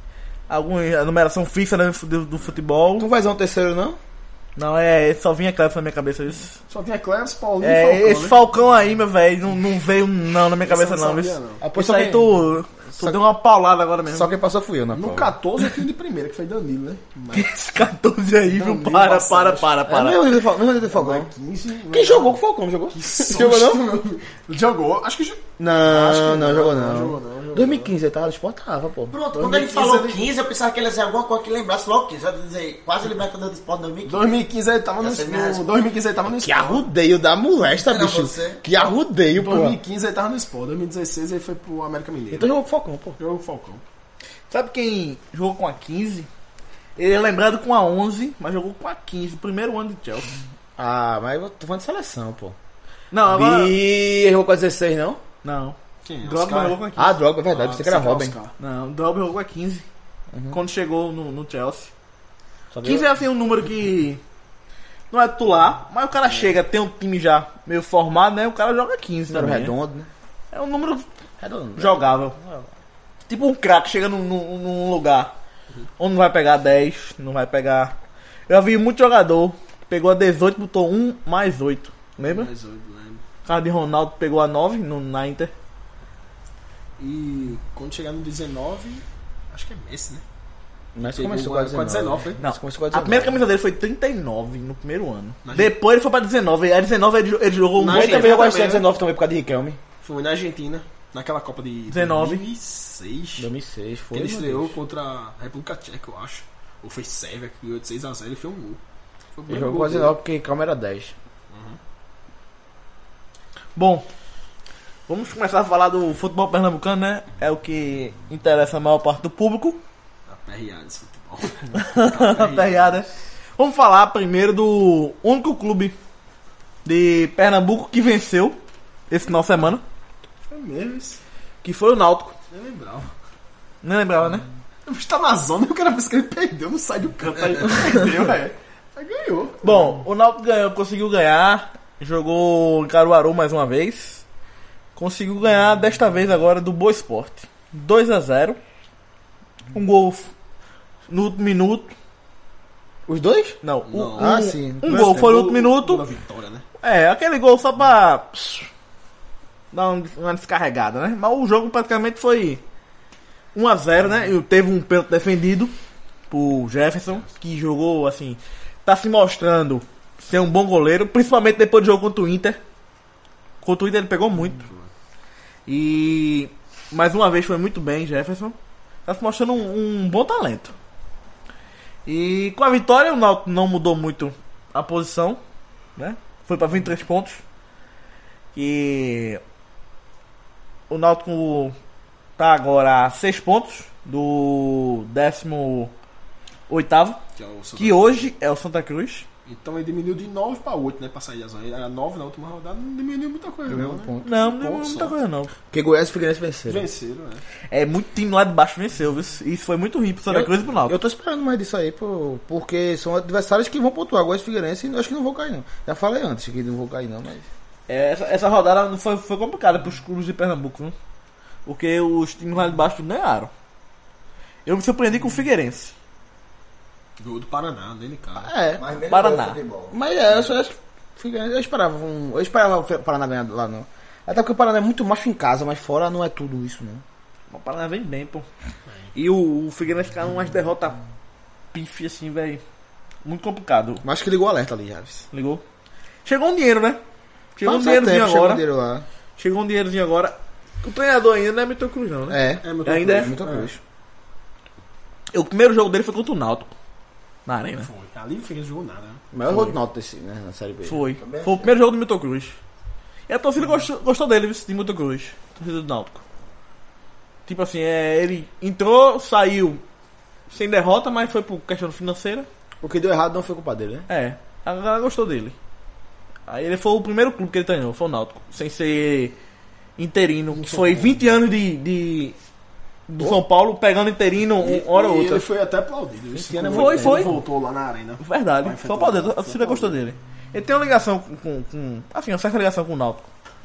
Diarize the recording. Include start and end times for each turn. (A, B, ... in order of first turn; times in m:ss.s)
0:00.5-0:03.1 A
0:03.0-0:04.0 B
0:04.6-0:06.6 A
0:06.7-0:08.4 C
0:07.6-0:14.4 A
0:10.6-0:11.6 C
0:11.6-0:12.3 B
0:14.1-0:15.3 B
0:14.9-0:17.6 C
0:17.3-0:20.2 A
0:18.5-0:19.7 C
0:19.9-0:21.3 B
0:20.8-0:22.4 C
0:21.9-0:23.8 B
0:23.0-0:27.9 C
0:25.6-0:29.2 B
0:29.1-0:34.3 D
0:29.3-0:30.3 C
0:34.1-0:36.9 C
0:35.0-0:35.7 D
0:36.3-0:39.8 B
0:37.8-0:38.9 D
0:39.3-0:42.5 C
0:42.3-0:43.2 B
0:43.2-0:43.8 C
0:44.5-0:46.3 A
0:47.0-0:50.3 A
0:50.8-0:52.6 B
0:53.1-0:53.8 A
0:53.3-0:55.2 B
0:55.4-0:57.2 A
0:56.0-0:56.8 C
0:57.0-0:58.4 B
0:57.5-0:58.5 C
0:58.6-0:59.8 A
1:00.3-1:00.6 B
1:00.5-1:01.9 A
1:02.7-1:03.1 B
1:02.8-1:04.2 A
1:05.1-1:09.8 A
1:09.3-1:10.1 B
1:10.5-1:11.1 A
1:11.4-1:12.7 B
1:11.8-1:12.4 A
1:13.3-1:15.3 A
1:16.0-1:18.0 A
1:18.5-1:22.5 A
1:22.2-1:23.2 C
1:23.4-1:25.5 A
1:27.0-1:30.2 C
1:31.0-1:33.4 B
1:31.0-1:32.4 C
1:32.4-1:38.4 A
1:35.4-1:35.8 C
1:37.8-1:38.9 C
1:37.9-1:39.8 B
1:40.0-1:43.5 C
1:41.9-1:42.4 A
1:43.4-1:44.8 B
1:44.1-1:48.8 C
1:49.4-1:50.1 C
1:49.5-1:51.1 B
1:51.5-1:51.8 C
1:53.8-1:54.1 A
1:55.1-1:59.8 A
2:00.3-2:03.0 C
2:01.8-2:06.0 A
2:06.8-2:08.6 A
2:09.1-2:09.8 A
2:10.5-2:11.2 C
2:11.6-2:12.3 A
2:12.5-2:13.1 C
2:13.8-2:14.4 A
2:14.9-2:20.0 C
2:19.6-2:24.2 A
2:25.0-2:28.6 A
2:29.7-2:30.3 A
2:31.1-2:31.9 A
2:33.1-2:33.6 B
2:33.6-2:36.0 A
2:33.9-2:36.6 C
2:34.2-2:35.3 B
2:36.8-2:38.7 A
2:39.7-2:42.6 A
2:43.6-2:45.7 A
2:46.3-2:52.6 A
2:53.6-2:54.6 A
2:54.6-2:54.9 C
2:55.7-3:00.7 A
3:02.1-3:05.4 A
3:06.0-3:07.4 A
3:08.6-3:09.4 A
3:10.9-3:11.8 A
3:12.4-3:15.9 A
3:16.7-3:17.2 A
3:17.4-3:18.3 C
3:17.8-3:19.3 A
3:19.5-3:25.2 C
3:23.7-3:24.3 B
3:24.2-3:25.5 A
3:25.7-3:26.9 B
3:26.7-3:27.4 C
3:27.7-3:31.0 A
3:30.3-3:37.5 B
3:37.9-3:41.0 A
3:41.7-3:43.5 A
3:44.7-3:45.9 A
3:47.2-3:48.5 C
3:48.4-3:48.8 B
3:48.8-3:50.0 D
3:49.1-3:49.6 A
3:49.9-3:57.0 B
3:57.5-3:58.5 A
3:59.2-4:01.0 A
4:01.7-4:02.6 A
4:03.2-4:04.0 A
4:04.0-4:05.2 B
4:05.3-4:05.6 A
4:06.2-4:07.0 A
4:07.6-4:08.6 A
4:07.6-4:09.0 B
4:09.4-4:13.4 A
4:12.3-4:13.8 B
4:12.6-4:13.7 C
4:15.3-4:16.7 A
4:17.5-4:17.9 A
4:17.8-4:19.2 C
4:19.3-4:21.1 B
4:19.4-4:19.7 A
4:20.8-4:22.6 A
4:21.2-4:21.7 D
4:23.3-4:26.2 A
4:27.5-4:29.8 A
4:30.5-4:32.5 A
4:32.8-4:34.1 B
4:34.1-4:35.6 A
4:36.5-4:39.4 A
4:40.0-4:42.4 A
4:40.5-4:41.2 C
4:43.1-4:45.5 A
4:44.6-4:50.0 C
4:46.3-4:47.4 B
4:46.7-4:47.4 A
4:48.2-4:53.3 A